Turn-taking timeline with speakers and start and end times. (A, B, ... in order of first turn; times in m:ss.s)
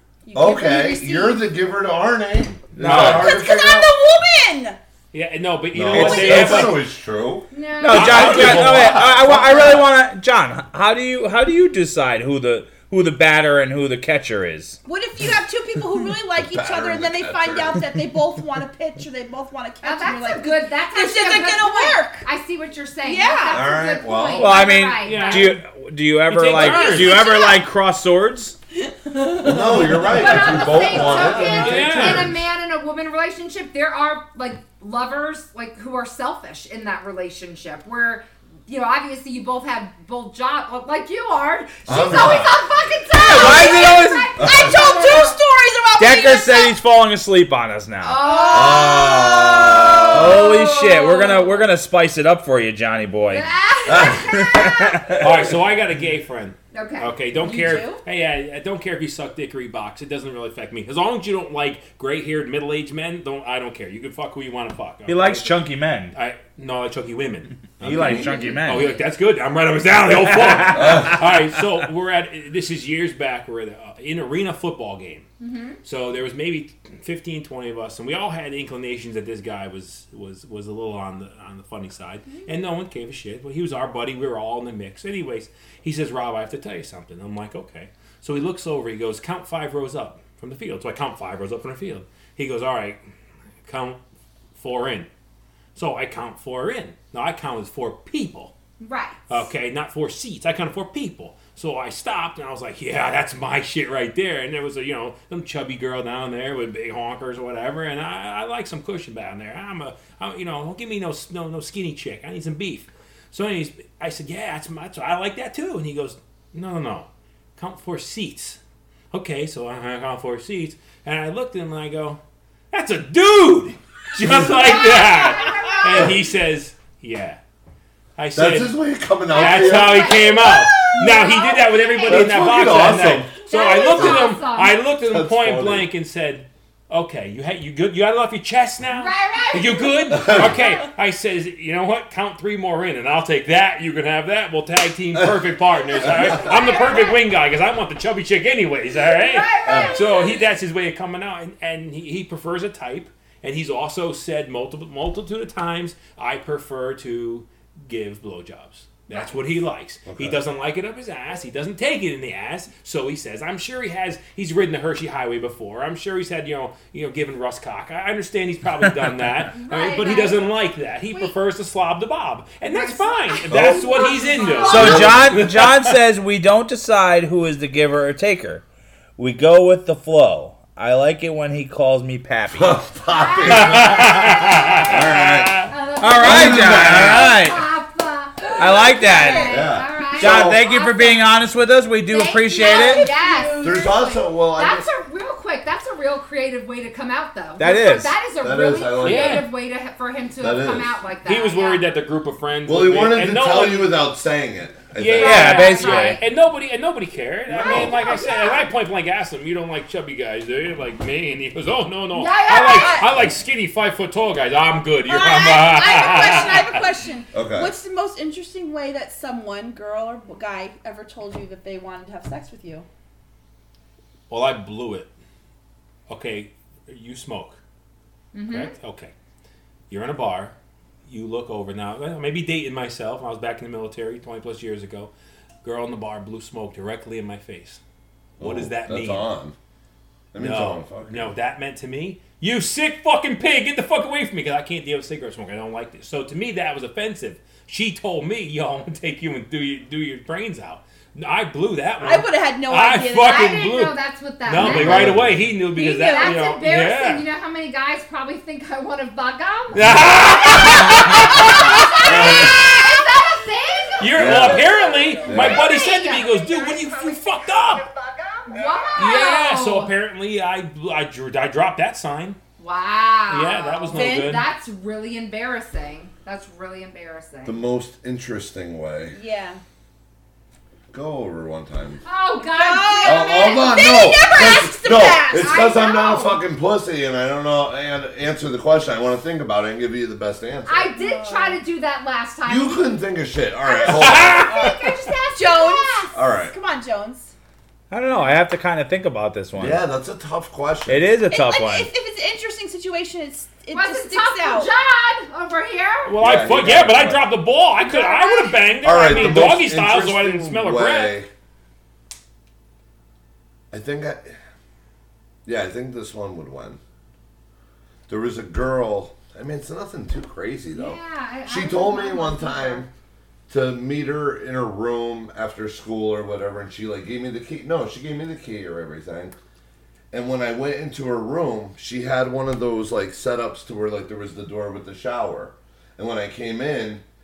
0:00.2-0:01.4 A
0:00.3-0:03.9 B
0:02.8-0:03.3 C
0:02.8-0:03.3 D
0:02.9-0:04.8 A
0:05.1-0:06.8 D
0:05.7-0:09.9 B
0:05.9-0:06.8 C
0:06.2-0:06.6 A
0:07.5-0:08.4 E
0:07.8-0:14.8 C
0:07.9-0:09.0 D
0:14.8-0:22.2 A
0:16.4-0:17.8 B
0:19.8-0:25.5 E
0:23.0-0:23.7 A
0:23.5-0:24.6 B
0:24.4-0:28.6 C
0:25.0-0:25.6 D
0:26.2-0:27.3 D
0:26.5-0:27.6 A
0:28.9-0:31.8 A
0:29.4-0:32.4 B
0:30.1-0:45.4 E
0:31.1-0:32.3 D
0:41.8-0:42.9 B
0:43.2-0:44.4 C
0:43.2-0:46.7 A
0:44.4-0:44.9 B
0:46.0-0:48.2 C
0:48.0-0:51.6 E
0:48.2-0:50.6 A
0:48.5-0:50.4 B
0:50.1-0:53.5 C
0:53.3-0:55.1 E
0:53.9-0:54.4 B
0:54.3-0:55.3 C
0:55.2-1:05.5 D
0:56.7-0:57.2 E
0:57.3-0:58.0 A
1:05.1-1:06.2 C
1:06.1-1:15.2 D
1:07.8-1:08.9 C
1:07.8-1:08.4 B
1:08.0-1:09.0 E
1:10.2-1:11.1 C
1:10.8-1:11.1 B
1:15.4-1:15.8 E
1:15.8-1:33.0 D
1:33.6-1:34.0 D
1:34.5-1:35.1 D
1:35.7-1:38.5 D
1:38.8-1:39.5 E
1:39.3-1:58.6 D
1:59.1-2:02.2 D
2:02.7-2:07.4 D
2:04.2-2:04.7 B
2:04.5-2:06.2 E
2:08.2-2:08.8 D
2:08.3-2:10.2 B
2:09.3-2:12.8 E
2:09.4-2:56.0 D
2:10.2-2:11.2 A
2:12.0-2:13.3 B
2:13.4-2:14.8 E
2:13.9-2:14.3 B
2:15.0-2:15.9 B
2:18.9-2:20.4 E
2:20.1-2:20.6 B
2:26.0-2:26.4 B
2:26.1-2:27.2 E
2:29.1-2:30.4 E
2:29.6-2:30.0 B
2:40.0-2:40.4 B
2:49.5-2:50.5 E
2:52.7-2:55.1 E
2:53.5-2:53.9 B
2:54.0-2:54.7 A
2:54.6-2:58.6 C
2:54.7-2:55.4 B
2:59.2-3:02.8 C
3:02.5-3:07.3 B
3:03.1-3:04.9 E
3:03.4-3:05.7 D
3:05.7-3:11.3 E
3:06.0-3:07.6 C
3:08.6-3:13.1 C
3:08.9-3:09.6 A
3:09.4-3:10.6 B
3:12.1-3:21.8 E
3:12.5-3:14.0 A
3:13.6-3:14.9 B
3:17.6-3:18.2 C
3:18.4-3:19.5 B
3:19.0-3:19.5 D
3:20.4-3:21.0 B
3:21.2-3:24.0 D
3:22.6-3:25.6 B
3:25.0-3:36.8 D
3:25.2-3:26.2 C
3:25.2-3:26.2 E
3:27.5-3:28.1 B
3:27.6-3:28.7 E
3:32.1-3:33.1 E
3:32.4-3:33.1 A
3:35.1-3:42.9 A
3:37.3-3:37.7 B
3:44.3-3:45.1 D
3:46.1-3:47.6 D
3:48.3-3:48.7 E
3:48.5-3:49.1 D
3:49.9-3:50.5 D
3:51.0-3:55.1 D
3:55.6-3:57.8 D
3:58.4-3:59.3 D
3:58.4-3:59.6 B
4:00.3-4:01.4 B
4:00.4-4:17.2 D
4:12.0-4:13.6 A
4:13.2-4:15.1 E
4:14.5-4:15.5 B
4:15.7-4:16.5 A
4:15.8-4:27.2 E
4:19.7-4:22.9 D
4:19.8-4:20.1 B
4:22.0-4:22.6 B
4:24.0-4:27.9 D
4:24.1-4:25.7 B
4:28.4-4:29.9 E
4:28.5-4:28.9 B
4:29.0-4:32.4 D
4:32.6-4:37.6 E
4:33.3-4:34.5 D
4:33.9-4:34.4 A
4:37.4-4:39.2 B
4:39.1-4:39.6 A
4:40.9-4:42.0 B
4:42.0-4:44.0 E
4:42.4-4:45.6 A
4:43.0-4:50.9 B
4:45.4-4:46.4 E
4:50.6-4:52.9 E
4:50.9-4:51.6 A
4:52.4-4:54.5 B
4:53.6-4:56.2 E
4:53.8-4:54.9 D
4:55.3-4:57.3 A
4:56.1-4:56.5 B
4:57.9-4:59.8 C
4:59.6-5:01.1 B
5:00.9-5:01.9 C
5:01.3-5:04.7 A
5:03.7-5:06.2 E
5:06.0-5:11.2 D
5:06.2-5:07.3 B
5:07.8-5:09.4 E
5:08.8-5:11.3 B
5:13.7-5:14.4 B
5:15.4-5:16.8 B
5:18.1-5:22.9 B
5:20.7-5:22.8 E
5:23.5-5:29.3 B
5:30.1-5:37.0 B